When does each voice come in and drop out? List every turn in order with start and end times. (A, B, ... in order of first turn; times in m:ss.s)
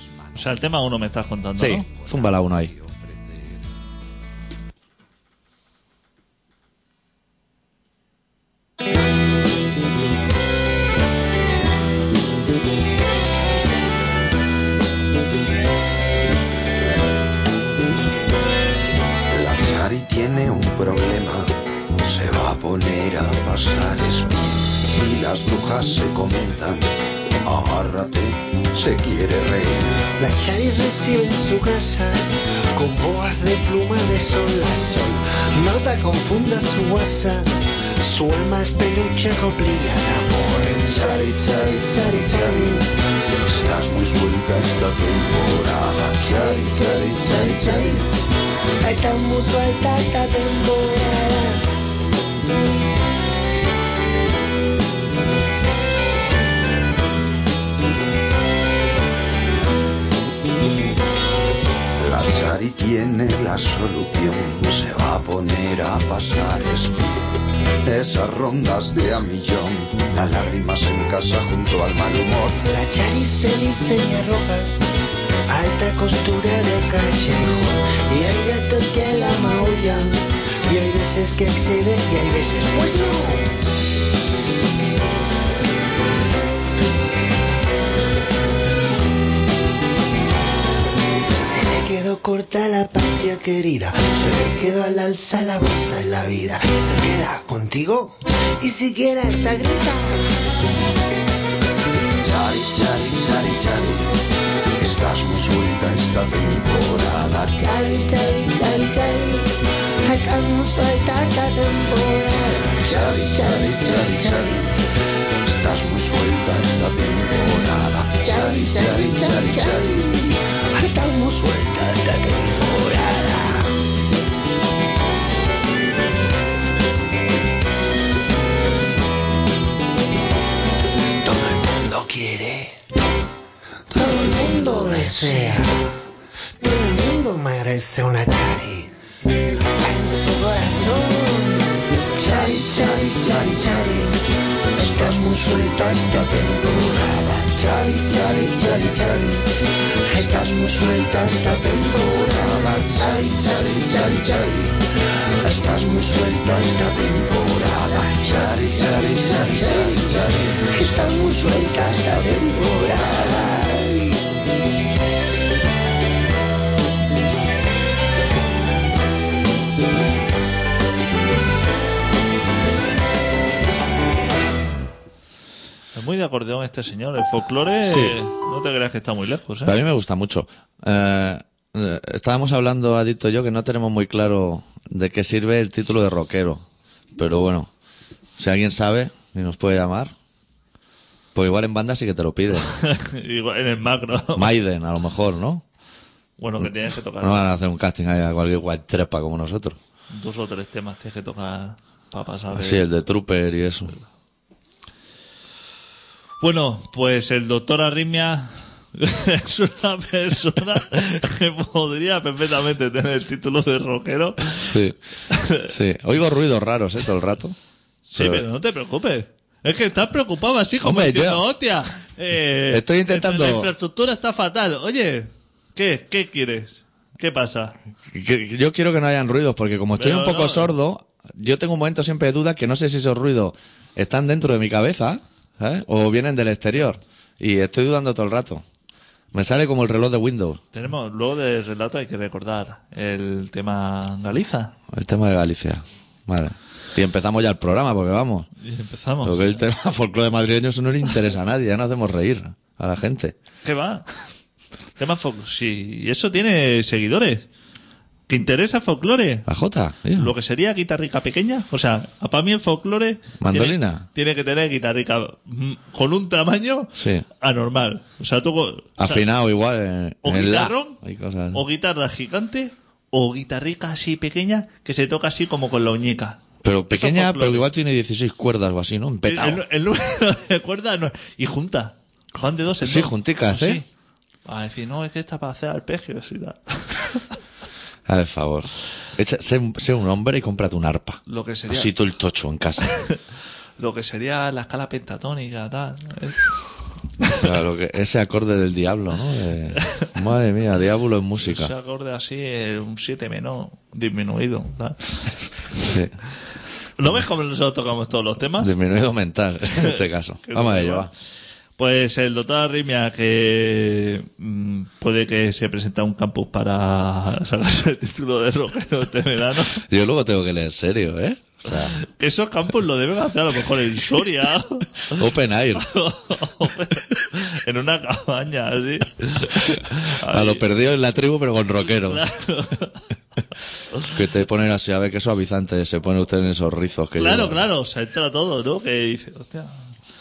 0:00.3-0:01.9 A
0:01.6-0:02.7 B
0:19.3-0:26.9 C
0:27.4-0:30.1 C
0:30.2-0:42.9 D
0:40.9-0:42.7 C
0:43.4-0:48.0 C
0:46.2-0:48.0 D
0:48.8-0:51.6 D
1:02.0-1:12.6 C
1:12.6-1:14.7 D
1:15.5-1:23.6 D
1:31.3-1:40.3 D
1:42.2-1:44.1 C
1:44.8-1:47.6 C
1:47.6-1:54.7 D
1:52.8-1:54.6 C
1:55.4-2:00.0 C
1:58.2-2:03.7 D
2:11.2-2:12.8 D
2:13.9-2:15.7 D
2:16.6-2:18.9 D
2:19.8-2:24.2 D
2:22.2-2:23.6 C
2:24.8-2:29.4 D
2:24.9-2:25.3 C
2:27.6-2:29.0 C
2:30.1-2:34.7 D
2:30.2-2:34.7 C
2:35.4-2:41.6 C
2:35.5-2:37.2 D
2:37.9-2:44.1 D
2:55.9-2:59.8 A
2:57.8-2:58.2 B
2:59.6-3:06.6 B
3:07.2-3:07.7 B
3:08.4-3:10.1 B
3:11.3-3:12.7 B
3:12.6-3:14.5 A
3:14.3-3:15.6 B
3:16.4-3:17.5 A
3:16.6-3:19.8 B
3:20.1-3:22.8 A
3:22.5-3:23.9 B
3:26.4-3:34.7 A
3:34.6-3:35.0 B
3:35.3-3:35.7 A
3:35.6-3:37.6 B
3:38.0-3:47.7 A
3:38.2-3:38.4 B
3:40.8-3:41.4 B
3:42.7-3:43.7 B
3:48.1-3:58.6 B
3:49.9-3:50.7 A
3:59.3-4:00.6 B
4:00.7-4:04.7 A
4:04.9-4:08.5 B
4:08.6-4:09.6 A
4:09.2-4:13.3 B
4:13.6-4:14.0 A
4:15.0-4:17.5 A
4:18.3-4:19.5 A
4:19.5-4:20.3 B
4:20.1-4:29.2 A
4:23.4-4:24.0 B
4:26.9-4:27.2 B
4:29.0-4:31.6 B
4:30.2-4:31.0 A
4:31.5-4:37.7 A
4:36.6-4:39.6 B
4:39.2-4:43.9 A
4:42.8-4:43.8 B
4:44.4-4:47.2 A
4:48.1-4:53.0 B
4:51.3-4:51.9 A
4:52.9-4:53.2 A
4:53.8-4:56.5 A
4:57.3-5:01.7 B
5:01.4-5:05.2 A
5:05.8-5:06.1 B
5:07.0-5:08.7 A
5:08.6-5:11.1 B
5:09.8-5:11.1 A
5:11.8-5:19.8 A
5:19.7-5:21.9 B
5:21.7-5:25.2 A
5:25.1-5:25.9 B
5:25.7-5:30.6 A
5:29.7-5:32.2 B
5:32.0-5:33.0 A
5:34.0-5:37.7 B
5:37.2-5:39.9 A